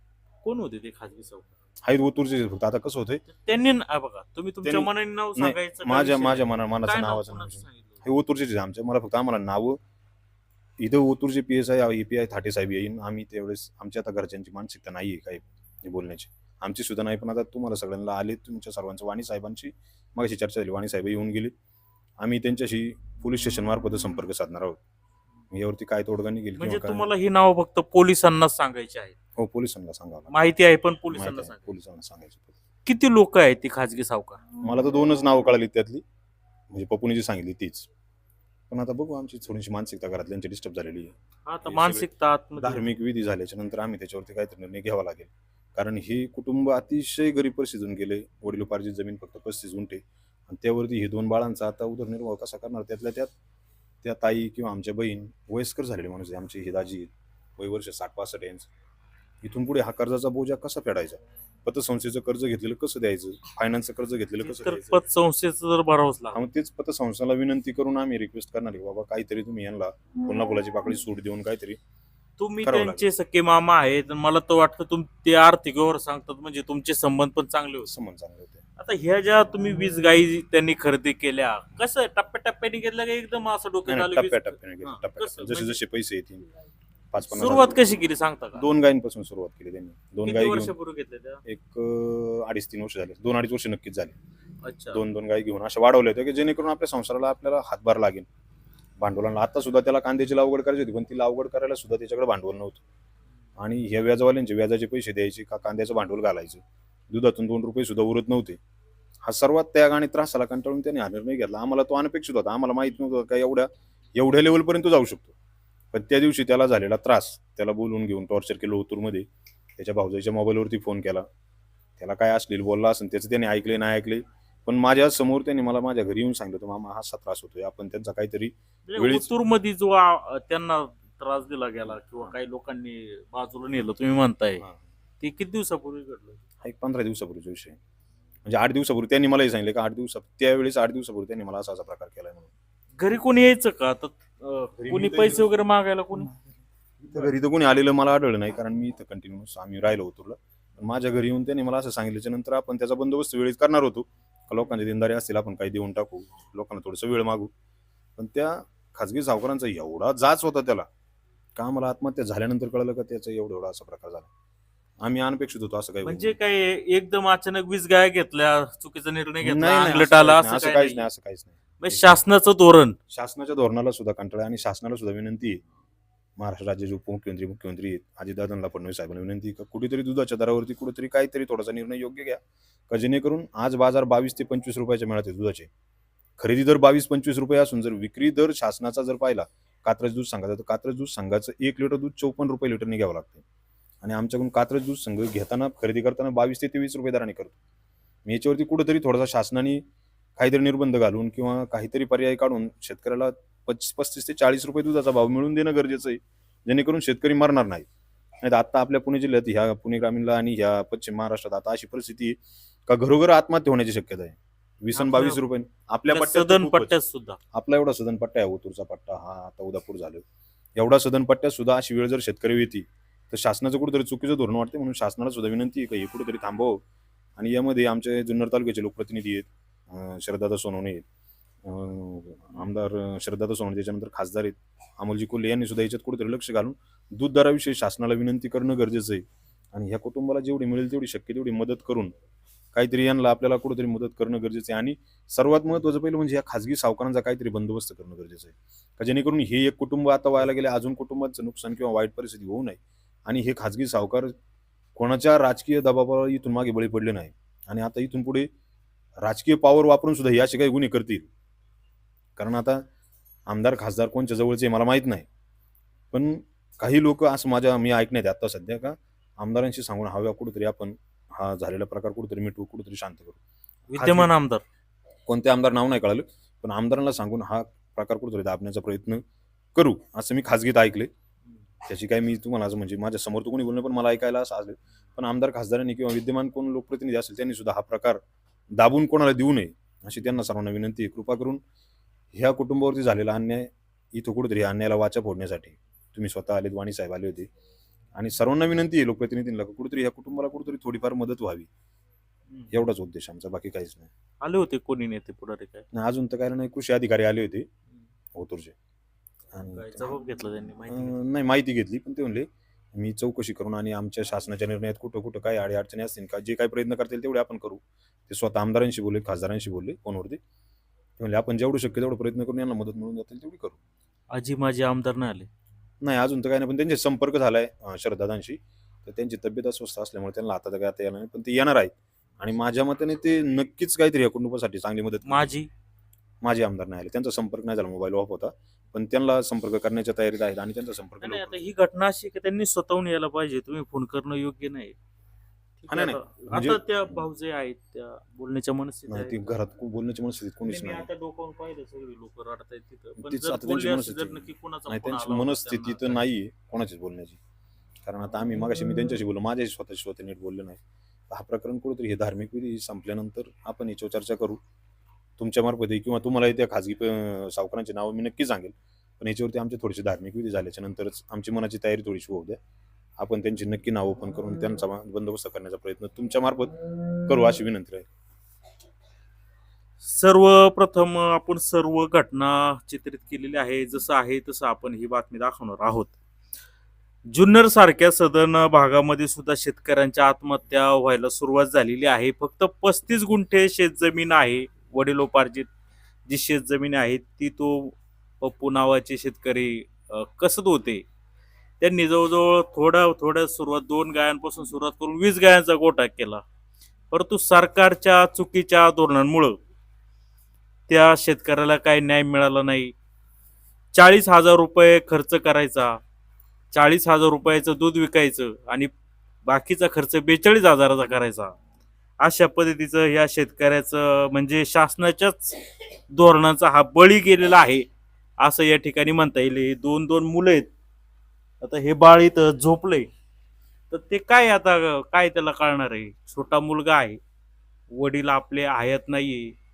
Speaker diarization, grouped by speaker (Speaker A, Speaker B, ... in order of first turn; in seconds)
Speaker A: 0.4-1.5, 3.4-8.0, 26.6-29.2, 30.3-31.7, 32.9-34.4, 41.5-42.9, 64.4-66.4, 72.4-77.9, 78.8-85.8, 87.3-88.7, 90.2-91.4, 94.6-95.0, 128.9-134.7, 135.2-136.4, 143.0-146.3, 166.0-171.1, 171.8-173.0, 214.9-215.4, 216.1-217.4, 273.9-274.6, 304.4-305.9, 309.7-311.2, 324.3-325.5, 335.2-335.7, 341.2-344.9, 345.8-349.4, 350.6-356.2, 380.0-386.1, 387.3-395.7, 396.3-401.0, 401.8-406.4, 407.1-409.6, 410.9-412.9, 413.9-416.0, 416.7-418.9, 419.4-421.6, 422.2-425.6, 426.1-427.9, 428.4-430.7, 431.6-433.1, 433.9-437.2, 437.9-439.6
Speaker B: 1.8-3.2, 4.6-9.8, 10.8-21.5, 22.2-24.8, 25.5-27.1, 29.4-30.4, 31.1-32.6, 34.6-36.0, 36.7-37.9, 38.7-41.1, 41.6-53.3, 54.0-58.7, 59.4-65.0, 66.3-71.8, 72.6-73.1, 77.8-78.6, 83.9-86.5, 87.1-87.8, 88.6-90.7, 91.5-94.2, 94.9-98.3, 99.0-102.8, 103.6-108.6, 109.2-115.3, 115.9-121.3, 122.0-129.3, 136.6-137.8, 138.4-142.5, 144.8-145.5, 147.0-157.5, 158.2-160.9, 161.6-164.3, 165.0-166.4, 169.4-172.2, 173.1-175.6, 176.4-185.7, 186.4-193.4, 194.0-197.6, 198.3-199.8, 200.4-207.9, 208.4-216.9, 217.5-220.2, 220.8-226.8, 227.4-231.1, 231.6-242.2, 242.7-254.3, 254.9-258.5, 259.2-261.3, 262.4-262.9, 263.5-265.3, 266.1-273.4, 273.9-274.3, 275.3-279.2, 279.8-281.1, 281.9-288.2, 288.7-291.6, 292.3-297.5, 298.1-301.7, 302.7-304.1, 305.9-307.7, 308.3-308.8, 309.5-310.1, 310.9-320.4, 321.2-323.8, 326.0-335.5, 336.4-341.7, 345.9-347.3, 349.1-351.1, 353.2-357.4, 358.0-364.6, 365.4-372.6, 373.2-378.1